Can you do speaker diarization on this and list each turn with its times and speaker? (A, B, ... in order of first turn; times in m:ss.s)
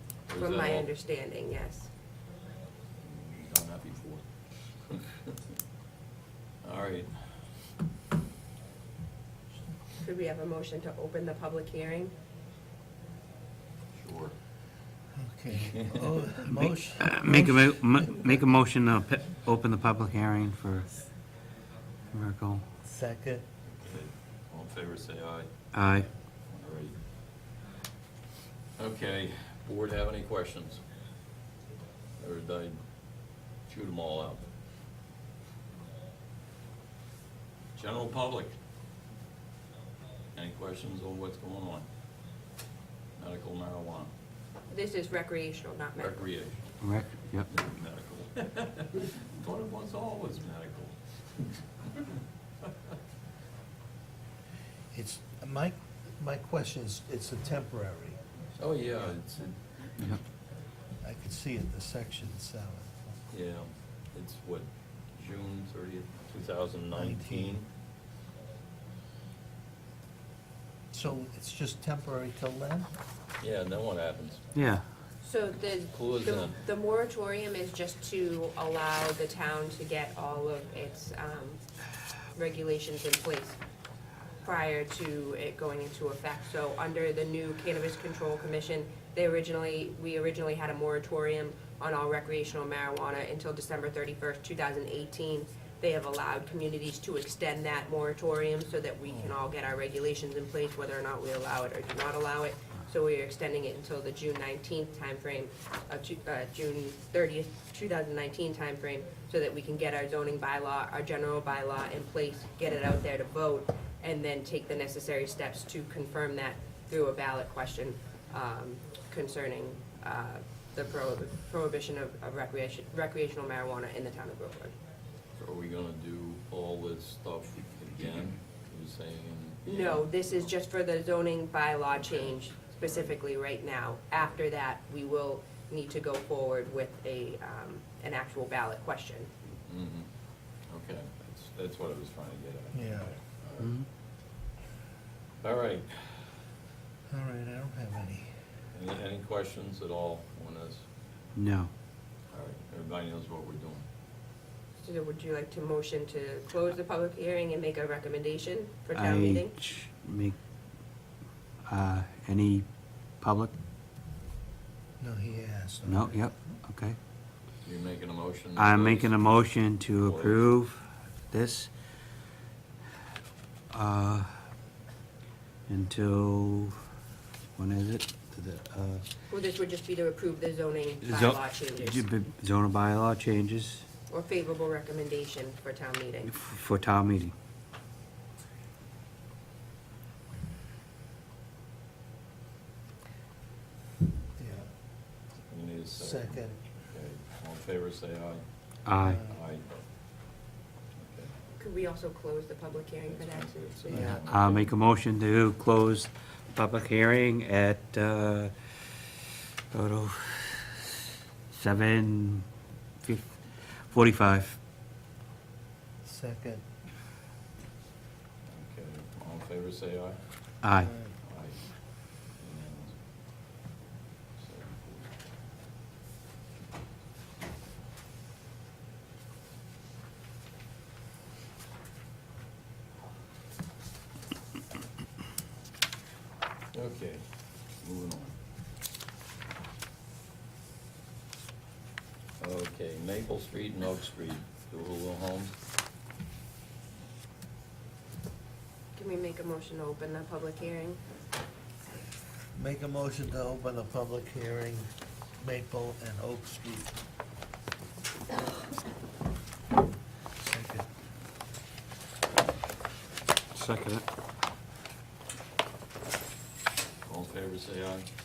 0:00.3-0:00.9 A
0:00.4-0:01.9 B
0:03.0-0:04.2 A
0:04.9-0:05.4 A
0:06.6-0:07.1 A
0:10.0-0:12.1 B
0:13.9-0:14.3 A
0:15.1-0:18.4 C
0:15.6-0:16.2 A
0:16.5-0:20.9 D
0:22.1-0:22.6 D
0:22.8-0:23.4 C
0:23.6-0:25.5 A
0:25.7-0:26.0 D
0:26.4-0:27.0 A
0:28.8-0:30.8 A
0:32.2-0:32.8 A
0:33.6-0:34.4 A
0:37.7-0:38.5 A
0:40.3-0:41.8 A
0:43.2-0:44.1 A
0:44.7-0:46.3 B
0:46.0-0:51.0 A
0:46.8-0:47.5 D
0:54.9-0:58.2 C
0:58.6-1:00.1 A
1:01.0-1:03.1 C
1:03.3-1:07.7 A
1:06.9-1:07.6 C
1:10.9-1:12.9 C
1:13.4-1:14.4 A
1:14.5-1:14.8 D
1:15.2-1:21.6 B
1:15.9-1:16.6 A
1:22.3-1:23.6 B
1:24.4-2:04.7 B
1:39.1-1:39.4 C
2:05.4-2:10.5 A
2:09.6-2:19.3 B
2:11.9-2:13.2 A
2:19.6-2:20.1 A
2:20.7-2:23.8 A
2:22.7-2:23.1 C
2:23.6-2:23.8 D
2:25.4-2:26.2 A
2:27.1-2:28.3 C
2:28.7-2:30.8 A
2:31.4-2:31.7 D
2:32.3-2:33.8 A
2:34.8-2:39.5 B
2:38.9-2:40.4 D
2:41.7-2:42.6 D
2:43.2-2:43.5 D
2:45.0-2:46.5 C
2:45.8-2:47.0 D
2:47.6-2:49.2 A
2:48.5-2:51.7 D
2:50.0-2:50.5 A
2:53.7-2:54.3 D
2:55.7-2:56.7 D
2:57.6-2:59.0 D
2:59.3-3:02.0 B
3:01.0-3:03.8 D
3:04.1-3:06.3 B
3:06.3-3:07.3 D
3:14.4-3:14.7 C
3:15.5-3:18.4 A
3:16.0-3:16.6 C
3:18.8-3:19.2 D
3:19.0-3:19.4 C
3:19.2-3:19.7 A
3:21.0-3:21.3 A
3:21.6-3:24.2 B
3:23.0-3:24.7 A
3:23.9-3:24.2 C
3:24.3-3:29.1 D
3:29.7-3:31.0 D
3:31.5-3:32.4 D
3:33.0-3:34.6 D
3:36.0-3:36.6 C
3:38.5-3:40.2 A
3:40.6-3:40.9 D
3:40.8-3:41.2 C
3:41.2-3:43.0 A
3:44.4-3:45.1 A
3:56.7-3:58.4 A
4:02.4-4:05.6 A
4:08.9-4:11.0 B
4:12.5-4:14.9 C
4:15.4-4:16.9 C
4:20.4-4:20.9 C
4:23.5-4:24.0 D
4:27.0-4:28.1 A